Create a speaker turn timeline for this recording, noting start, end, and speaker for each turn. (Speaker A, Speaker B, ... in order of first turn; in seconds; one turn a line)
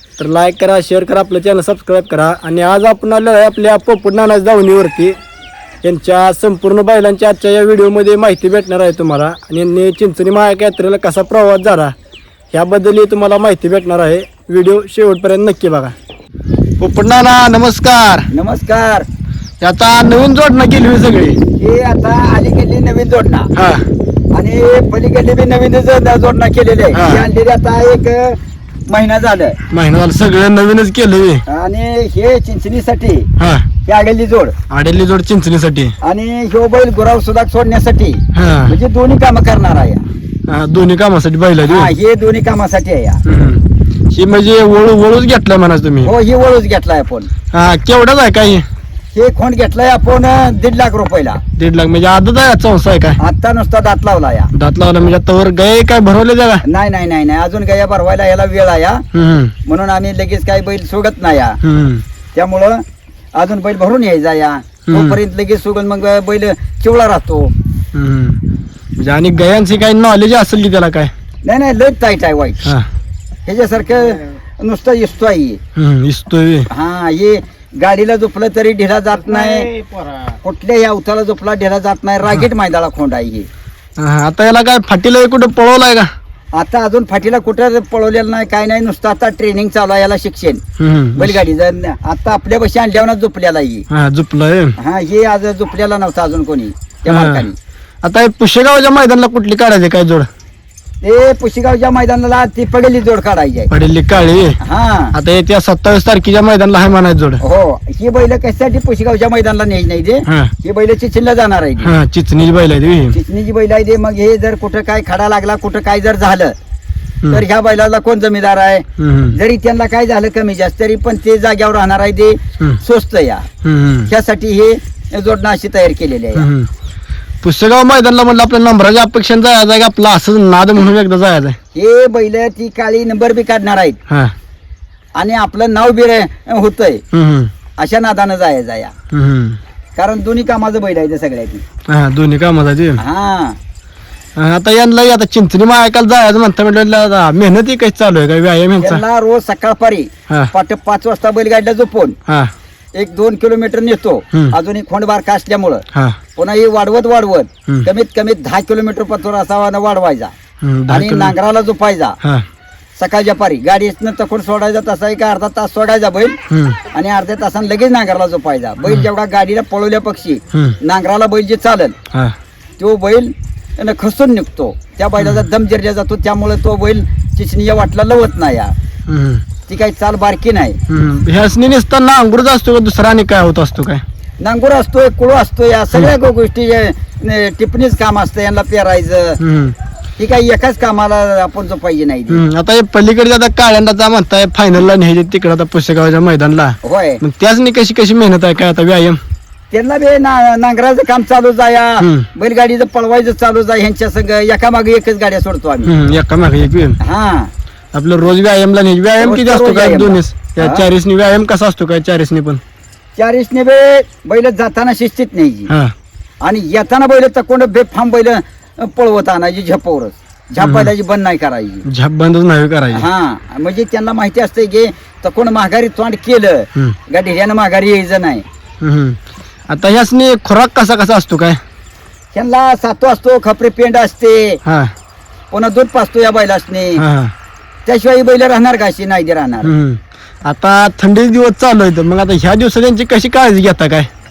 Speaker A: 0.2-5.2
Speaker A: 5.8-11.9
Speaker A: 12.5-15.9
Speaker A: 16.8-18.3
Speaker B: 18.3-19.1
Speaker A: 19.6-21.4
Speaker B: 21.6-23.5
Speaker A: 23.5-23.9
Speaker B: 24.3-29.6
Speaker A: 26.9-27.2
Speaker A: 29.7-31.4
Speaker B: 31.5-33.3
Speaker A: 33.4-33.7
Speaker B: 33.8-34.5
Speaker A: 34.7-35.9
Speaker B: 36.0-40.0
Speaker A: 38.3-38.8
Speaker A: 40.5-41.9
Speaker B: 41.6-43.2
Speaker A: 43.2-46.1
Speaker B: 46.0-47.3
Speaker A: 47.5-48.6
Speaker B: 49.1-51.4
Speaker A: 51.5-53.2
Speaker B: 53.2-54.5
Speaker A: 54.5-56.6
Speaker B: 56.6-59.0
Speaker A: 59.1-59.5
Speaker B: 59.6-61.6
Speaker A: 61.6-62.0
Speaker B: 62.3-62.8
Speaker B: 63.3-67.5
Speaker A: 64.9-65.2
Speaker A: 67.9-68.4
Speaker A: 69.0-71.1
Speaker B: 71.4-72.7
Speaker B: 73.5-75.6
Speaker A: 75.7-76.7
Speaker B: 76.7-79.8
Speaker B: 80.4-83.5
Speaker A: 84.0-86.1
Speaker B: 86.5-90.6
Speaker A: 90.8-91.4
Speaker B: 91.1-93.9
Speaker A: 93.9-94.7
Speaker B: 94.8-97.5
Speaker A: 97.1-97.4
Speaker A: 98.0-100.3
Speaker B: 101.0-103.7
Speaker A: 103.7-104.6
Speaker B: 104.6-105.1
Speaker A: 105.1-107.4
Speaker B: 107.4-111.9
Speaker A: 110.2-110.5
Speaker A: 111.8-113.2
Speaker B: 113.1-116.5
Speaker B: 117.3-123.4
Speaker A: 119.0-119.4
Speaker A: 123.6-124.1
Speaker B: 124.1-126.5
Speaker A: 126.3-126.7
Speaker A: 127.4-131.6
Speaker B: 131.7-134.0
Speaker B: 135.2-137.0
Speaker A: 137.1-137.5
Speaker B: 137.8-138.9
Speaker A: 139.1-139.6
Speaker B: 140.0-141.6
Speaker A: 141.9-143.0
Speaker B: 143.0-143.6
Speaker A: 144.3-149.0
Speaker B: 148.8-152.2
Speaker A: 152.3-152.5
Speaker B: 152.9-155.8
Speaker A: 155.9-156.2
Speaker B: 156.3-160.3
Speaker A: 160.6-161.3
Speaker B: 160.9-162.2
Speaker B: 162.9-166.4
Speaker A: 166.5-166.8
Speaker B: 166.9-171.9
Speaker B: 172.8-178.7
Speaker A: 179.1-179.4
Speaker B: 179.7-180.8
Speaker A: 180.9-184.0
Speaker B: 184.4-189.4
Speaker A: 189.4-189.8
Speaker B: 190.2-192.4
Speaker A: 192.3-199.2
Speaker B: 196.8-197.2
Speaker B: 199.7-205.9
Speaker A: 202.0-202.3
Speaker A: 205.8-207.0
Speaker B: 207.0-207.5
Speaker A: 207.9-212.6
Speaker B: 209.2-210.8
Speaker B: 213.2-215.7
Speaker A: 215.7-215.9
Speaker B: 216.4-221.8
Speaker A: 220.6-220.9
Speaker A: 221.8-223.0
Speaker B: 222.9-228.4
Speaker A: 228.8-231.6
Speaker B: 232.3-234.6
Speaker A: 234.6-234.9
Speaker B: 235.5-237.0
Speaker A: 237.0-237.3
Speaker B: 237.8-239.7
Speaker A: 239.6-244.1